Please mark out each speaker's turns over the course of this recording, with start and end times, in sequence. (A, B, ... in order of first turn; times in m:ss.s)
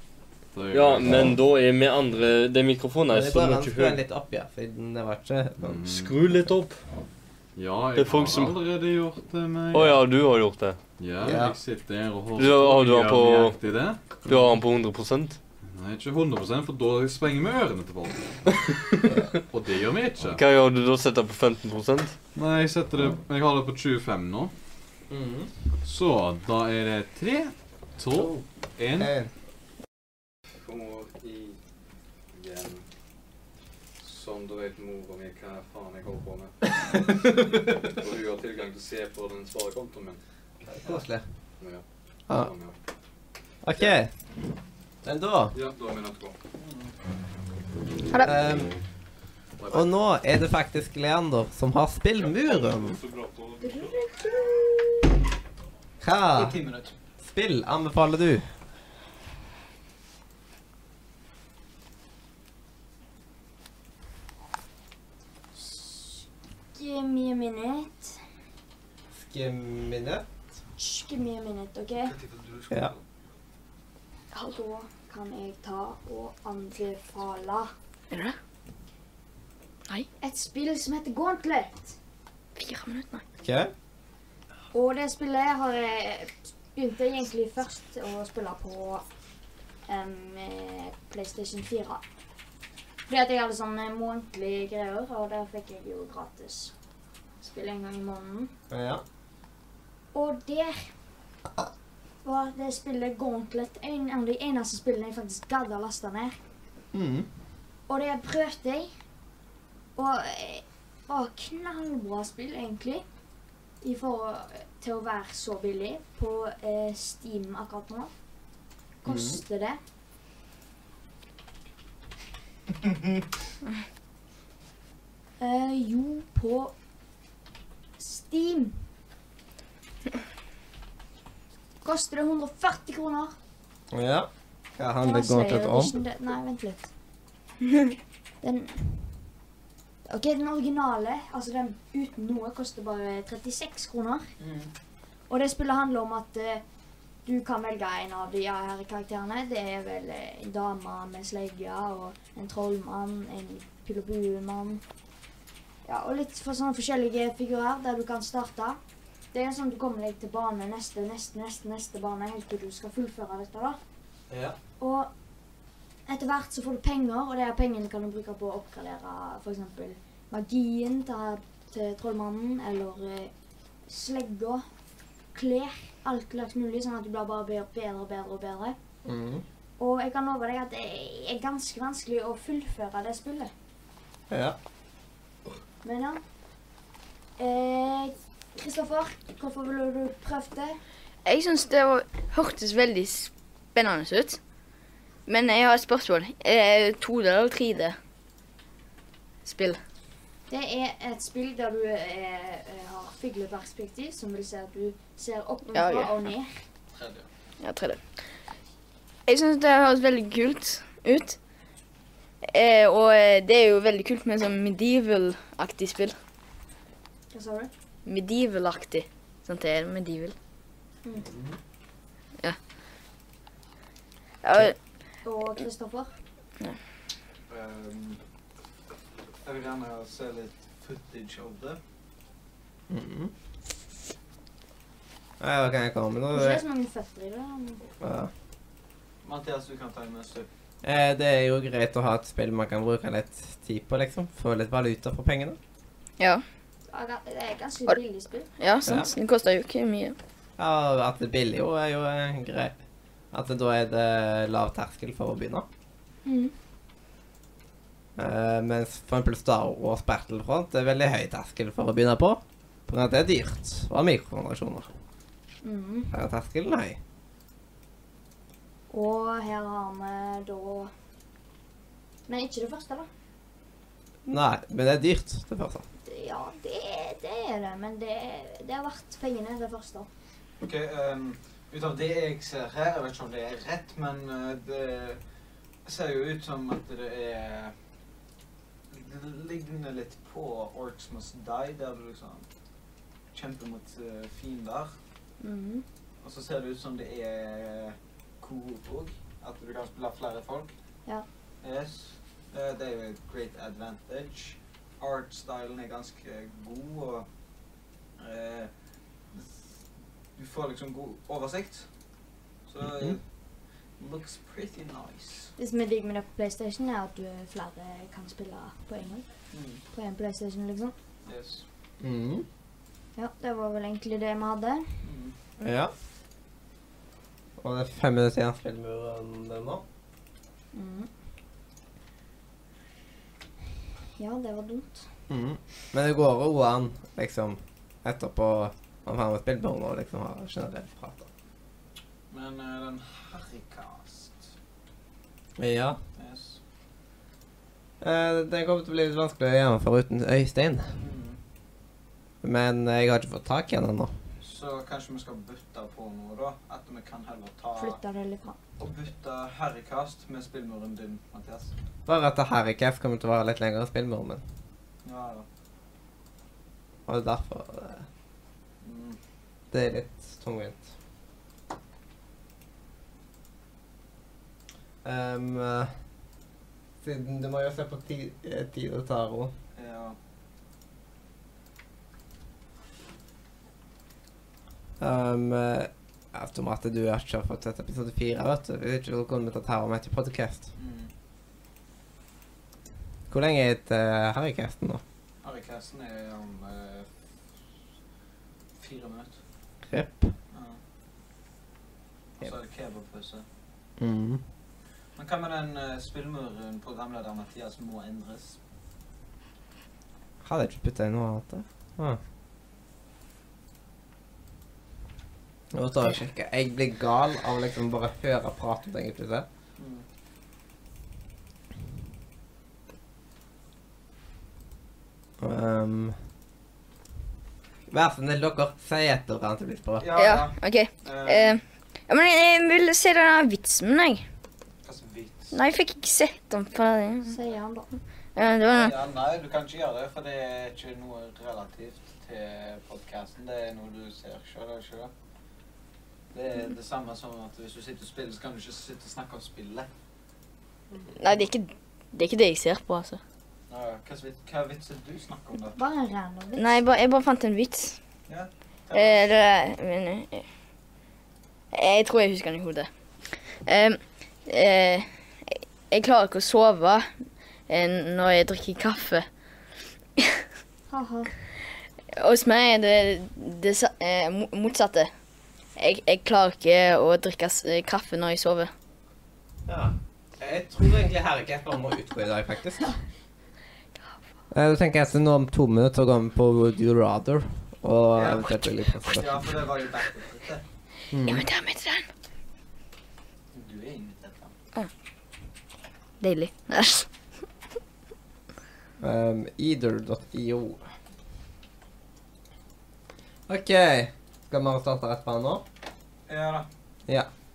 0:00.5-0:01.4 A
0:00.7-0:04.0 B
0:03.1-0:05.8 C
0:05.6-0:06.2 A
0:05.8-0:06.8 B
0:07.6-0:10.0 A
0:08.0-0:08.6 B
0:09.7-0:10.8 B
0:11.0-0:14.0 A
0:11.2-0:11.6 C
0:12.4-0:13.6 B
0:14.3-0:15.4 B
0:15.7-0:20.4 A
0:20.3-0:22.2 B
0:22.4-0:24.5 A
0:25.1-0:25.5 C
0:25.8-0:29.1 A
0:28.2-0:28.4 C
0:29.0-0:29.3 C
0:30.6-0:31.6 A
0:32.3-0:32.8 A
0:34.0-0:40.2 A
0:40.7-0:41.3 C
0:41.6-0:42.8 A
0:43.6-0:44.1 C
0:45.0-0:45.6 C
0:45.5-0:46.4 A
0:46.6-0:46.9 D
0:48.2-0:48.8 C
0:49.6-0:49.9 A
0:49.7-0:53.0 C
0:52.2-0:54.0 B
0:53.6-0:55.1 E
0:56.0-0:56.6 C
0:56.3-0:56.9 D
0:57.2-0:58.5 C
1:05.5-1:08.2 E
1:09.1-1:10.2 C
1:10.8-1:12.2 E
1:12.0-1:13.0 D
1:14.3-1:17.7 E
1:18.1-1:18.4 F
1:20.2-1:22.0 E
1:22.6-1:23.2 F
1:23.4-1:23.7 C
1:24.7-1:29.0 E
1:29.9-1:32.0 E
1:33.1-1:36.7 E
1:37.4-1:38.5 E
1:38.7-1:39.0 C
1:40.1-1:40.9 E
1:42.2-1:46.4 E
1:46.9-1:47.3 C
1:47.9-1:48.9 E
1:50.0-1:53.0 E
1:53.8-1:58.1 E
1:59.0-1:59.8 E
1:59.1-1:59.4 C
2:05.4-2:06.7 E
2:08.0-2:08.8 E
2:11.8-2:13.4 E
2:13.9-2:16.0 C
2:15.0-2:16.9 E
2:18.4-2:19.2 E
2:20.1-2:24.3 E
2:24.4-2:24.7 D
2:25.3-2:26.6 E
2:27.2-2:34.8 E
2:35.8-2:38.8 E
2:39.3-2:43.8 E
2:44.8-2:45.1 E
2:46.1-2:53.3 E
2:53.9-2:54.6 E
2:55.3-2:58.8 E
2:59.0-2:59.4 C
2:59.8-3:03.5 E
3:04.3-3:04.6 C
3:05.8-3:06.2 E
3:07.4-3:10.8 E
3:11.2-3:14.4 F
3:15.3-3:18.0 F
3:19.4-3:19.8 F
3:20.5-3:26.6 E
3:25.7-3:26.1 F
3:26.9-3:27.3 D
3:27.6-3:28.0 F
3:29.3-3:31.4 F
3:32.4-3:36.2 F
3:37.3-3:37.7 E
3:38.1-3:40.4 F
3:41.3-3:41.6 C
3:44.4-3:44.8 F
3:45.2-3:46.1 E
3:47.5-3:48.2 D
3:49.4-3:51.8 D
3:52.9-3:53.3 C
3:55.4-3:56.6 C
3:56.3-3:57.8 E
3:58.0-3:58.3 C
3:59.2-4:00.5 D
4:00.8-4:05.6 C
4:06.9-4:08.5 E
4:08.6-4:10.2 F
4:08.8-4:09.1 C
4:10.6-4:12.7 C
4:13.3-4:15.7 C
4:16.2-4:16.5 E
4:18.2-4:24.9 C
4:25.6-4:26.1 E
4:26.1-4:27.0 C
4:28.9-4:30.9 E
4:32.3-4:33.1 E
4:34.3-4:35.8 C
4:36.1-4:40.1 E
4:40.6-4:45.2 D
4:45.8-4:47.7 D
4:48.9-4:52.5 D
4:53.3-4:54.9 D
4:55.4-4:55.8 E
4:56.2-5:00.7 D
5:01.6-5:07.3 D
5:08.2-5:08.7 D
5:09.3-5:09.6 D
5:10.4-5:11.9 D
5:12.7-5:13.2 D
5:12.8-5:13.2 C
5:14.0-5:15.5 D
5:15.6-5:19.2 E
5:19.5-5:19.8 D
5:19.9-5:21.0 E
5:21.2-5:21.6 D
5:22.0-5:22.5 C
5:23.2-5:24.9 E
5:25.0-5:25.3 D
5:25.6-5:25.9 C
5:27.6-5:29.8 C
5:30.7-5:31.1 E
5:34.2-5:35.1 E
5:35.3-5:41.3 C
5:42.3-5:44.5 D
5:45.6-5:46.0 C
5:46.2-5:46.6 D
5:48.0-5:51.0 C
5:51.0-5:51.4 D
5:52.4-5:54.1 C
5:54.4-5:58.0 D
5:57.8-5:58.6 E
5:58.8-6:01.7 D
6:02.1-6:04.4 C
6:05.0-6:05.5 D
6:07.1-6:08.1 C
6:08.8-6:09.2 D
6:09.7-6:10.9 C
6:15.0-6:15.9 C
6:17.0-6:19.5 C
6:19.8-6:20.2 D
6:25.0-6:30.7 C
6:30.8-6:31.1 D
6:33.3-6:35.0 C
6:35.4-6:37.1 D
6:38.8-6:39.4 D
6:39.9-6:40.3 C
6:40.5-6:40.8 D
6:42.4-6:43.4 D
6:44.0-6:44.4 C
6:45.2-6:48.6 D
6:50.4-6:52.2 C
6:55.7-6:59.5 C
6:59.8-7:00.0 D
7:05.4-7:06.2 C
7:07.9-7:10.1 C
7:10.0-7:11.6 D
7:10.2-7:14.2 F
7:14.8-7:15.5 D
7:15.5-7:17.4 F
7:17.3-7:17.9 E
7:18.4-7:18.9 F
7:18.6-7:25.1 D
7:26.3-7:29.9 D
7:31.2-7:33.2 F
7:33.7-7:35.8 D
7:35.8-7:36.8 E
7:36.6-7:38.0 F
7:38.3-7:39.3 D
7:38.9-7:40.5 F
7:41.7-7:42.9 F
7:43.6-7:47.1 F
7:47.7-7:49.3 F
7:50.2-7:50.4 F
7:50.9-7:51.3 E
7:52.2-7:55.1 F
7:55.8-7:58.7 F
7:59.7-8:02.9 C
8:04.5-8:09.5 C
8:08.2-8:10.6 D
8:11.1-8:11.5 C
8:11.2-8:12.1 F
8:13.5-8:14.5 D
8:16.2-8:17.1 F
8:19.0-8:20.8 C
8:23.5-8:25.6 C
8:26.3-8:26.7 D